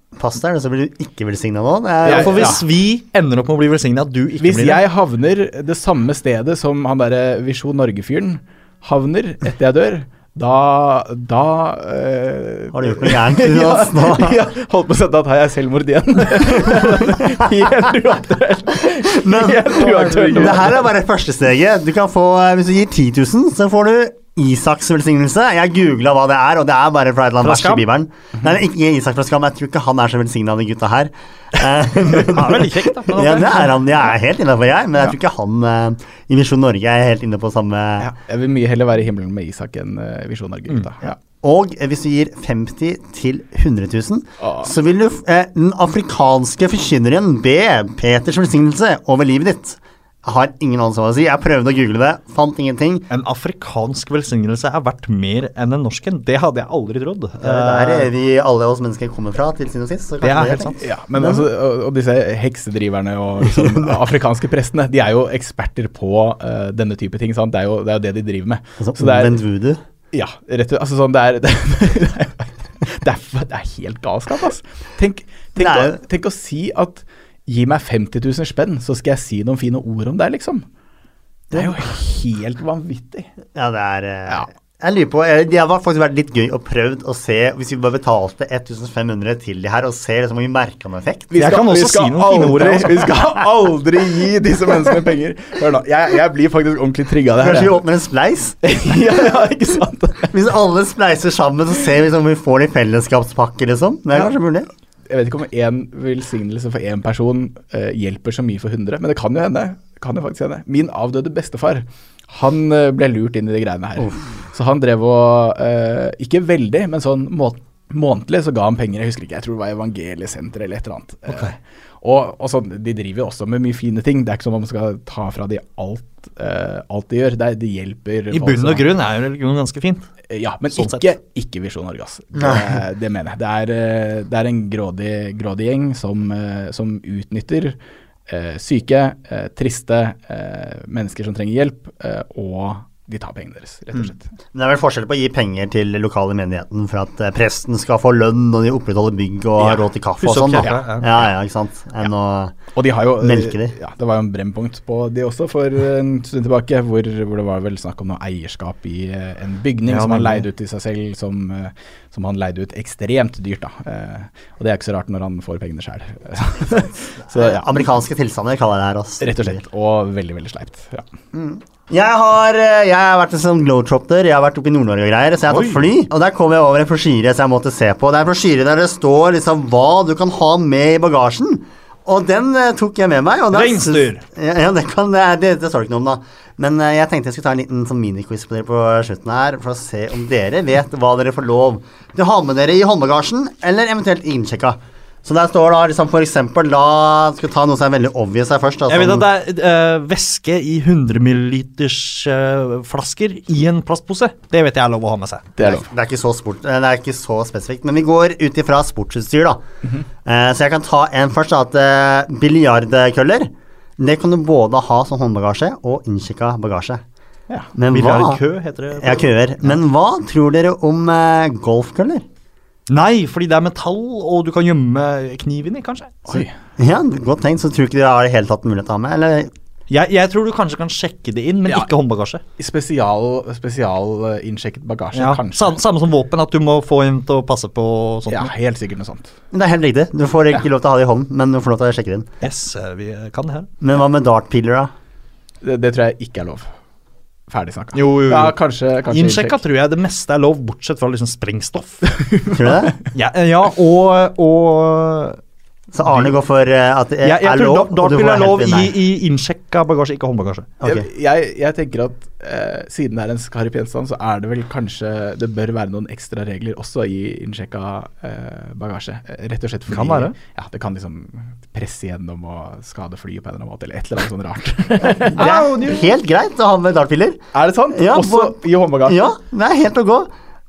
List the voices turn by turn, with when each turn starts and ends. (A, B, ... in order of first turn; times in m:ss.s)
0:00.2-0:02.6 A
0:02.0-0:02.6 B
0:02.0-0:04.8 C
0:04.4-0:20.8 B
0:12.7-0:14.4 A
0:19.1-0:38.1 A
0:19.8-0:20.7 C
0:27.4-0:27.8 C
0:32.1-0:33.9 C
0:38.0-0:41.2 B
0:41.3-0:53.0 A
0:44.4-0:44.7 B
0:53.1-0:58.1 C
0:57.4-1:01.4 A
1:00.2-1:00.8 C
1:00.8-1:09.4 B
1:08.8-1:09.8 A
1:10.1-1:20.6 B
1:15.6-1:16.0 A
1:21.5-1:21.8 A
1:21.5-1:23.3 B
1:23.5-1:31.3 A
1:31.3-1:37.8 B
1:31.4-1:33.1 C
1:37.4-1:38.6 A
1:38.6-1:40.3 B
1:40.3-1:44.7 A
1:45.1-2:08.9 B
2:08.3-2:10.1 C
2:10.3-2:17.8 B
2:10.7-2:11.0 C
2:12.4-2:12.6 A
2:18.3-2:24.3 B
2:24.0-2:32.6 A
2:29.6-2:31.2 C
2:30.6-2:30.9 B
2:32.7-2:47.8 B
2:33.2-2:33.7 A
2:39.9-2:40.5 C
2:47.3-2:49.6 A
2:49.2-2:51.0 B
2:51.3-3:19.3 A
2:55.5-2:55.9 C
3:03.5-3:04.2 C
3:18.9-3:25.5 C
3:25.6-3:25.9 B
3:25.6-3:29.6 A
3:30.2-3:37.0 A
3:37.7-3:38.4 A
3:37.9-3:39.8 C
3:38.9-3:42.2 A
3:42.9-3:46.4 C
3:46.8-3:49.5 A
3:49.9-3:52.4 C
3:52.6-3:55.8 B
3:55.1-3:58.5 C
3:58.3-3:59.3 B
3:59.5-4:02.3 A
4:02.4-4:03.7 C
4:03.8-4:04.9 A
4:05.6-4:06.7 B
4:07.5-4:09.6 B
4:07.9-4:08.6 C
4:09.1-4:12.0 C
4:12.2-4:12.8 B
4:12.5-4:13.0 A
4:13.1-4:15.4 C
4:15.9-4:18.9 A
4:17.2-4:20.7 C
4:20.8-4:21.0 A
4:20.8-4:35.6 B
4:29.9-4:30.4 C
4:35.3-4:36.1 C
4:35.3-4:37.4 A
4:37.5-4:39.3 B
4:37.9-4:40.3 A